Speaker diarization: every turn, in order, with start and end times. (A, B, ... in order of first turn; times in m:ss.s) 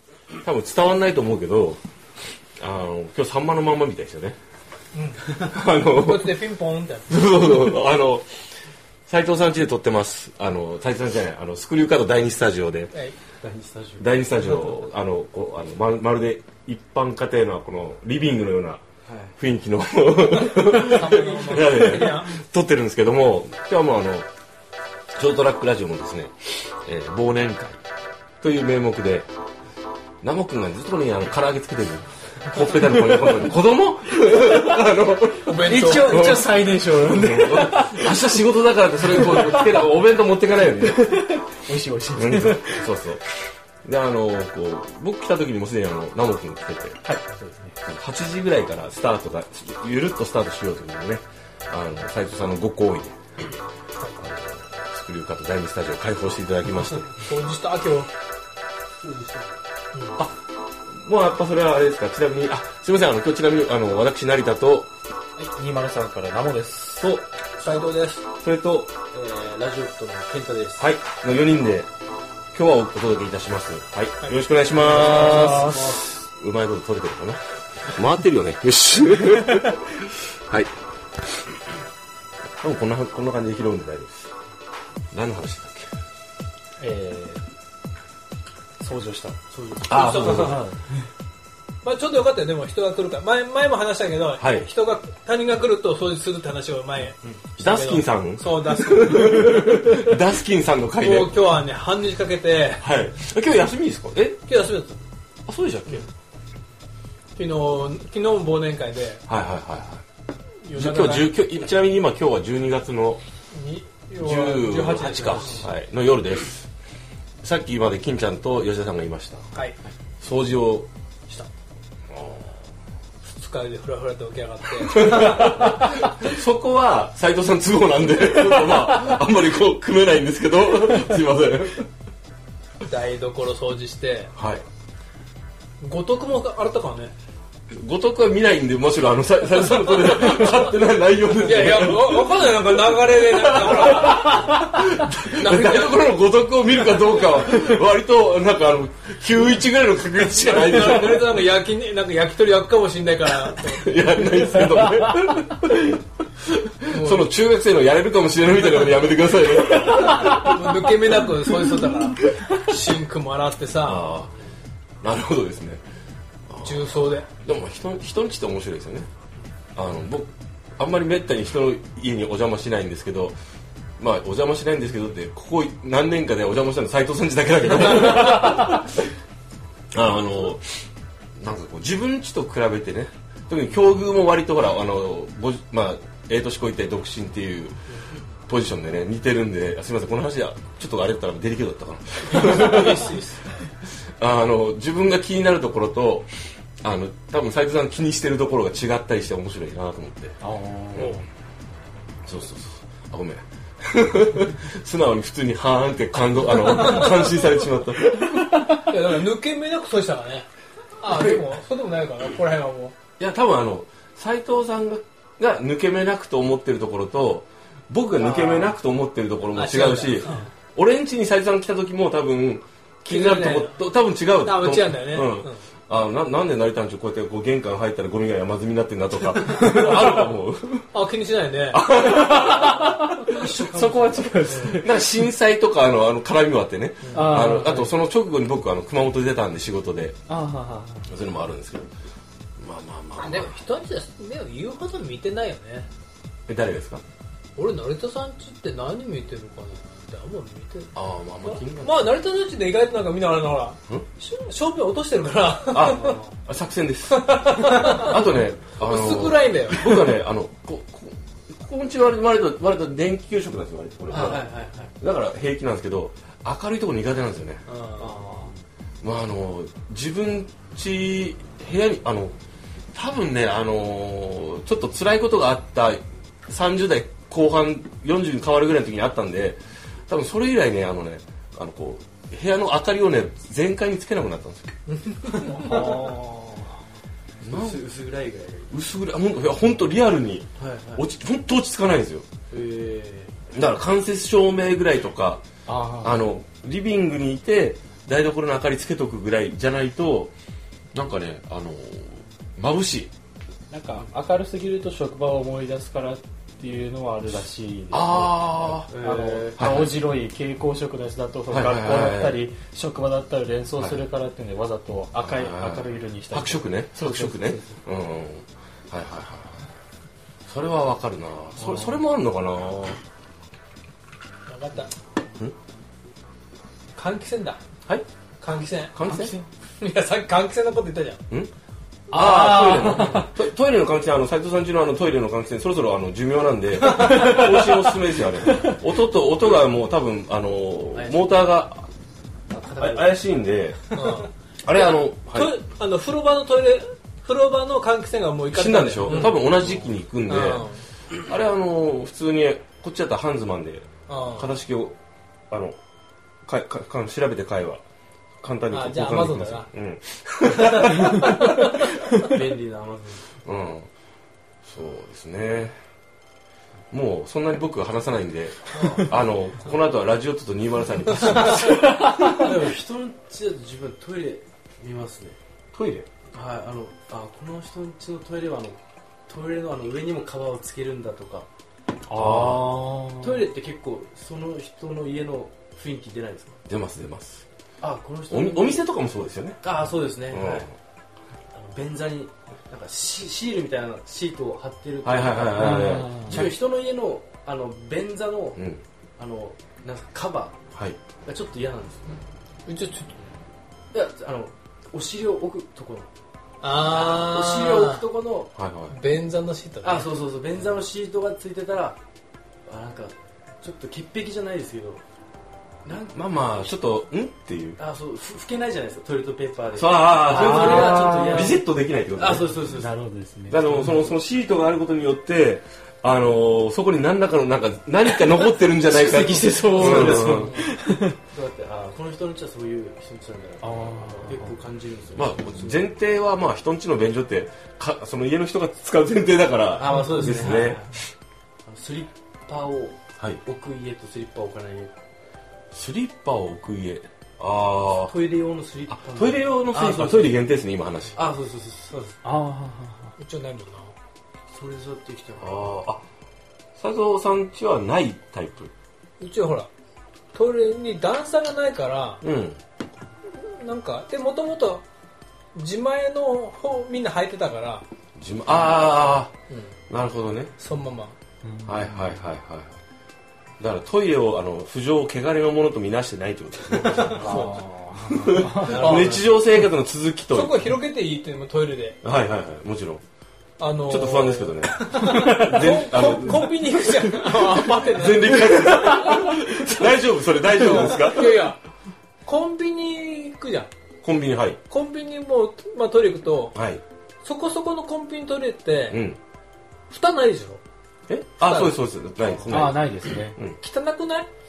0:00.4-0:01.8 A
0:02.6-0:04.4 A
0:04.9-0:07.1 B
0:05.4-0:06.4 A
0:07.1-0:08.3 A
0:09.1-0:12.9 A
0:13.4-0:14.2 C
0:14.0-0:18.8 A
0:19.1-0:19.3 C
0:19.4-0:24.3 A
0:20.5-0:22.3 B
0:25.1-0:27.8 A
0:28.4-0:29.3 A
0:30.2-0:41.2 A
0:35.4-0:36.2 B
0:35.6-0:38.3 D
0:39.1-0:39.9 D
0:40.8-0:42.9 D
0:42.2-0:43.2 A
0:43.8-0:47.0 A
0:47.0-0:47.8 D
0:47.8-0:53.2 A
0:54.2-0:57.2 A
0:57.2-0:58.1 B
0:59.0-0:59.6 C
0:59.9-1:00.2 B
1:01.0-1:04.9 A
1:05.4-1:07.1 D
1:07.0-1:07.2 A
1:07.6-1:08.2 B
1:08.4-1:08.9 A
1:09.1-1:10.8 C
1:10.8-1:11.9 A
1:12.5-1:20.7 A
1:14.7-1:16.0 C
1:14.9-1:16.0 D
1:22.6-1:24.3 A
1:25.1-1:25.9 A
1:26.8-1:27.4 D
1:28.8-1:29.4 D
1:29.5-1:30.2 C
1:29.8-1:30.6 A
1:29.9-1:30.6 B
1:30.3-1:30.8 D
1:31.8-1:39.8 B
1:34.4-1:34.7 A
1:37.6-1:41.3 A
1:41.0-1:42.9 B
1:42.8-1:44.5 A
1:44.5-1:45.0 B
1:45.5-1:46.1 A
1:47.4-1:49.2 B
1:49.3-1:50.0 A
1:50.6-1:51.3 B
1:50.7-1:53.2 A
1:53.5-1:55.7 B
1:54.2-1:56.7 A
1:57.4-1:59.4 A
1:59.5-1:59.8 B
2:00.2-2:00.9 A
2:02.1-2:02.6 A
2:03.2-2:05.8 B
2:04.9-2:11.9 A
2:12.8-2:14.3 B
2:14.4-2:14.6 A
2:15.8-2:17.1 B
2:17.7-2:31.4 A
2:21.4-2:24.7 B
2:25.2-2:26.1 B
2:30.4-2:33.9 B
2:33.7-2:35.9 A
2:34.8-2:35.1 D
2:36.5-2:40.6 A
2:36.9-2:37.3 B
2:40.1-2:44.1 B
2:43.8-2:44.3 A
2:45.0-2:45.8 A
2:46.5-2:49.1 A
2:46.6-2:47.3 B
2:49.8-2:53.4 A
2:54.0-2:59.0 A
2:57.8-2:58.5 B
2:59.9-3:00.8 A
3:01.4-3:07.8 A
3:08.5-3:13.2 A
3:12.2-3:13.7 B
3:14.2-3:20.4 A
3:20.4-3:21.2 D
3:20.9-3:21.2 A
3:21.0-3:21.2 B
3:22.3-3:28.5 A
3:26.5-3:27.3 B
3:28.9-3:30.5 B
3:31.0-3:33.0 B
3:31.1-3:31.5 A
3:33.2-3:50.9 A
3:38.1-3:38.8 B
3:39.5-3:40.5 B
3:43.1-3:43.8 B
3:44.4-3:45.6 B
3:50.9-3:51.8 B
3:51.7-3:52.9 A
3:52.0-3:55.1 D
3:53.3-3:54.8 C
3:54.5-4:00.2 A
3:57.0-3:57.3 B
3:57.1-3:57.9 D
4:00.3-4:01.1 D
4:01.1-4:01.9 A
4:02.6-4:03.6 A
4:03.2-4:05.9 B
4:06.5-4:07.0 A
4:07.6-4:10.9 B
4:11.0-4:12.1 A
4:11.4-4:16.2 B
4:15.7-4:24.5 A
4:17.1-4:20.1 B
4:24.1-4:24.9 C
4:24.1-4:24.4 B
4:25.0-4:27.6 A
4:27.7-4:28.2 B
4:28.0-4:28.6 C
4:29.0-4:32.4 A
4:32.9-4:44.7 A
4:44.9-4:46.0 B
4:45.6-4:46.7 D
4:47.4-4:47.8 A
4:47.4-4:48.7 C
4:48.7-4:52.3 A
4:50.6-4:51.0 C
4:52.5-4:53.3 C
4:53.5-4:55.4 A
4:55.7-4:56.2 D
4:56.0-5:00.3 A
5:00.9-5:03.1 A
5:03.7-5:17.8 D
5:07.9-5:08.9 A
5:08.9-5:09.6 C
5:09.6-5:10.0 A
5:11.5-5:12.5 A
5:13.8-5:14.0 A
5:15.2-5:19.7 A
5:20.5-5:23.0 A
5:21.6-5:22.0 D
5:24.5-5:24.9 B
5:27.0-5:27.6 B
5:28.4-5:29.0 B
5:28.9-5:29.4 A
5:29.1-5:29.4 D
5:29.8-5:31.2 B
5:32.1-5:33.4 D
5:32.1-5:41.9 A
5:36.9-5:37.5 D
5:40.9-5:41.2 C
5:42.5-5:43.2 C
5:42.8-5:44.0 A
5:44.0-5:49.6 B
5:44.6-5:45.6 A
5:48.5-5:50.7 A
5:49.1-5:49.4 C
5:50.3-5:50.8 B
5:51.3-5:55.0 A
5:54.1-5:54.6 B
5:55.5-5:55.8 A
5:56.5-5:57.8 A
5:58.4-6:01.3 A
5:58.7-5:59.7 B
6:01.2-6:01.8 B
6:02.2-6:03.2 C
6:03.4-6:03.9 A
6:04.6-6:05.8 A
6:06.9-6:11.8 A
6:08.8-6:09.0 C
6:11.7-6:12.3 D
6:12.2-6:15.4 C
6:15.7-6:16.1 A
6:16.3-6:21.5 C
6:22.1-6:22.7 A
6:22.1-6:23.4 D
6:23.2-6:26.6 C
6:26.7-6:27.4 A
6:27.8-6:28.8 C
6:28.3-6:29.6 A
6:29.6-6:30.7 C
6:30.3-6:30.7 A
6:31.5-6:38.6 C
6:35.0-6:36.6 A
6:35.6-6:36.4 D
6:38.6-6:38.8 A
6:39.2-6:40.6 C
6:40.7-6:41.0 A
6:41.2-6:42.2 C
6:42.7-6:43.2 B
6:43.9-6:46.1 C
6:46.6-6:48.0 B
6:46.8-6:48.5 C
6:48.6-6:49.0 A
6:48.9-6:50.1 B
6:49.8-6:52.0 C
6:52.7-6:55.0 C
6:55.8-6:56.7 C
6:56.0-6:57.8 A
6:57.8-7:02.9 C
6:59.8-7:02.5 A
7:00.3-7:01.6 D
7:02.7-7:04.0 D
7:03.5-7:10.6 A
7:08.9-7:10.7 C
7:09.2-7:11.2 D
7:11.3-7:15.9 C
7:13.6-7:14.5 D
7:15.2-7:20.9 A
7:19.8-7:20.9 C
7:21.7-7:24.9 C
7:25.7-7:28.1 A
7:28.1-7:30.4 C
7:28.9-7:31.2 A
7:31.2-7:32.2 C
7:32.2-7:33.1 D
7:33.2-7:33.9 B
7:34.5-7:35.8 C
7:35.4-7:36.0 A
7:36.8-7:38.7 A
7:39.2-7:39.7 B
7:40.3-7:42.2 B
7:42.2-7:42.6 A
7:43.3-7:44.8 B
7:45.6-7:47.9 B
7:48.2-7:49.3 A
7:49.9-7:50.5 A
7:50.6-7:51.2 B
7:51.4-7:52.2 D
7:51.7-7:52.8 A
7:53.6-7:57.5 A
7:56.9-7:57.6 B
7:57.1-7:58.9 D
7:58.2-8:00.6 A
7:58.7-7:59.2 B
7:58.7-7:59.2 C
8:00.3-8:02.0 B
8:02.0-8:03.0 A
8:03.6-8:09.3 B
8:03.9-8:11.5 A
8:10.5-8:11.6 B
8:12.2-8:13.7 B
8:14.0-8:14.6 A
8:14.7-8:16.6 B
8:16.6-8:16.8 A
8:17.2-8:19.0 B
8:18.9-8:19.2 A
8:19.9-8:20.6 B
8:21.1-8:23.6 A
8:21.4-8:21.8 B
8:22.5-8:23.4 D
8:23.6-8:24.3 B